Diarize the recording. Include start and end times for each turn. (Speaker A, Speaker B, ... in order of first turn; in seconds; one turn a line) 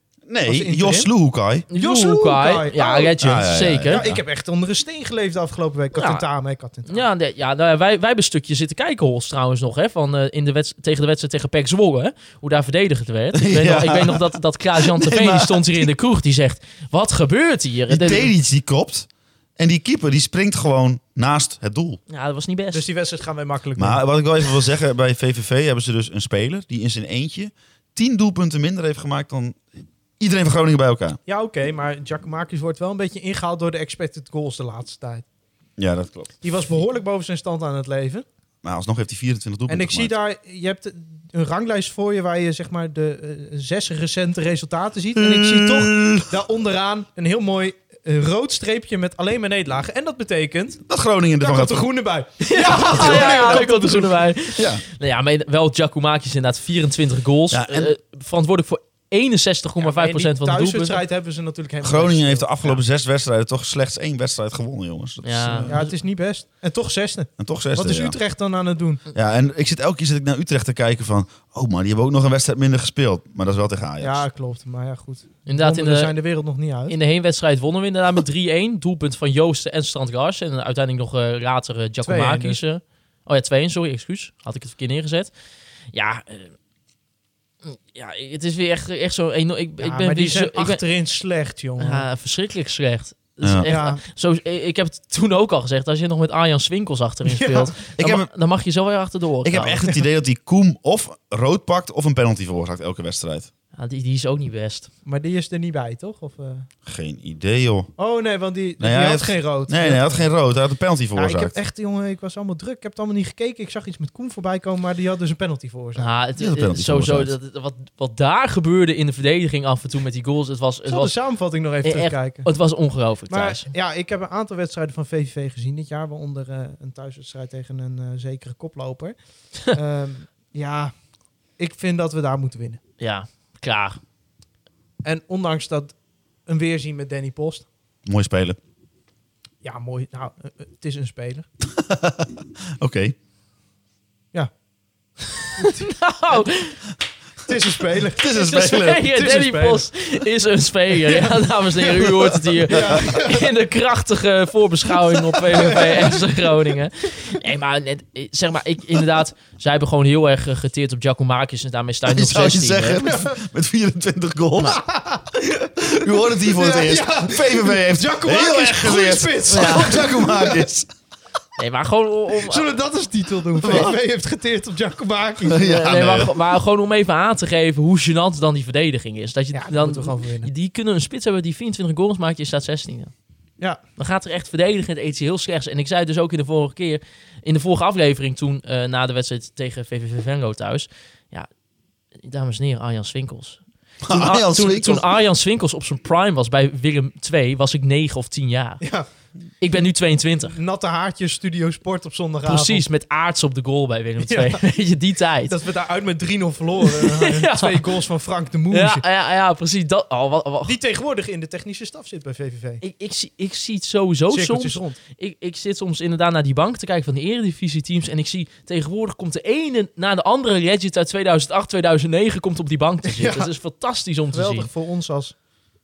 Speaker A: 0.3-1.7
Speaker B: 0.5-1.1
Speaker C: 1.7-4.1
Speaker B: 1.7-7.1
Speaker A: 3.2-4.2
Speaker C: 5.9-6.2
Speaker C: 6.9-18.3
Speaker A: 13.3-15.9
Speaker A: 17.9-22.0
Speaker C: 22.1-22.9
Speaker B: 22.7-24.0
Speaker A: 23.8-31.2
Speaker B: 31.2-35.2
Speaker A: 35.8-36.3
Speaker B: 36.4-38.2
Speaker A: 38.6-40.1
Speaker B: 39.7-50.8
Speaker A: 45.1-46.2
Speaker A: 50.9-51.9
Speaker B: 51.4-54.2
Speaker C: 52.4-61.0
Speaker A: 53.0-53.6
Speaker A: 54.5-54.8
Speaker A: 57.5-57.9
Speaker B: 59.8-62.8
Speaker A: 61.8-65.8
Speaker C: 65.2-65.9
Speaker B: 65.7-69.0
Speaker A: 67.4-68.2
Speaker A: 69.1-74.2
Speaker B: 74.0-76.9
Speaker C: 75.5-76.1
Speaker C: 76.9-85.3
Speaker B: 82.0-82.6
Speaker C: 85.9-86.5
Speaker C: 87.6-90.8
Speaker B: 89.8-92.1
Speaker C: 91.8-99.8
Speaker A: 93.4-93.7
Speaker B: 93.7-94.0
Speaker B: 97.2-97.7
Speaker A: 98.0-98.3
Speaker A: 99.4-103.5
Speaker C: 103.7-104.9
Speaker B: 105.0-106.7
Speaker A: 106.8-107.9
Speaker B: 108.0-110.2
Speaker A: 108.8-111.5
Speaker B: 111.1-116.1
Speaker C: 116.0-121.1
Speaker A: 116.4-117.3
Speaker B: 120.9-122.5
Speaker C: 121.8-123.7
Speaker B: 123.3-129.2
Speaker B: 129.7-130.9
Speaker B: 131.6-132.8
Speaker C: 133.0-134.0
Speaker B: 135.0-135.9
Speaker B: 136.4-137.7
Speaker A: 138.1-138.6
Speaker B: 139.6-141.5
Speaker A: 141.6-143.2
Speaker B: 145.6-145.9
Speaker C: 145.6-146.8
Speaker B: 147.4-149.8
Speaker A: 148.2-149.0
Speaker C: 148.3-163.0
Speaker B: 151.0-153.5
Speaker A: 152.7-153.1
Speaker B: 155.5-156.2
Speaker A: 162.1-164.8
Speaker B: 163.0-163.3
Speaker B: 164.8-165.2
Speaker A: 165.8-170.9
Speaker B: 166.5-170.7
Speaker C: 169.5-169.9
Speaker C: 171.6-172.7
Speaker B: 172.4-175.7
Speaker A: 173.5-173.9
Speaker A: 175.4-176.4
Speaker C: 175.6-183.1
Speaker B: 179.5-180.5
Speaker C: 184.0-191.5
Speaker C: 192.2-198.8
Speaker A: 194.0-195.1
Speaker B: 198.8-199.1
Speaker C: 199.6-200.6
Speaker B: 200.5-202.8
Speaker C: 202.4-205.5
Speaker B: 204.2-204.6
Speaker B: 205.5-209.0
Speaker C: 206.8-207.9
Speaker C: 208.7-210.8
Speaker B: 210.6-212.8
Speaker C: 212.8-224.7
Speaker B: 214.3-215.0
Speaker B: 223.1-223.5
Speaker B: 224.3-225.3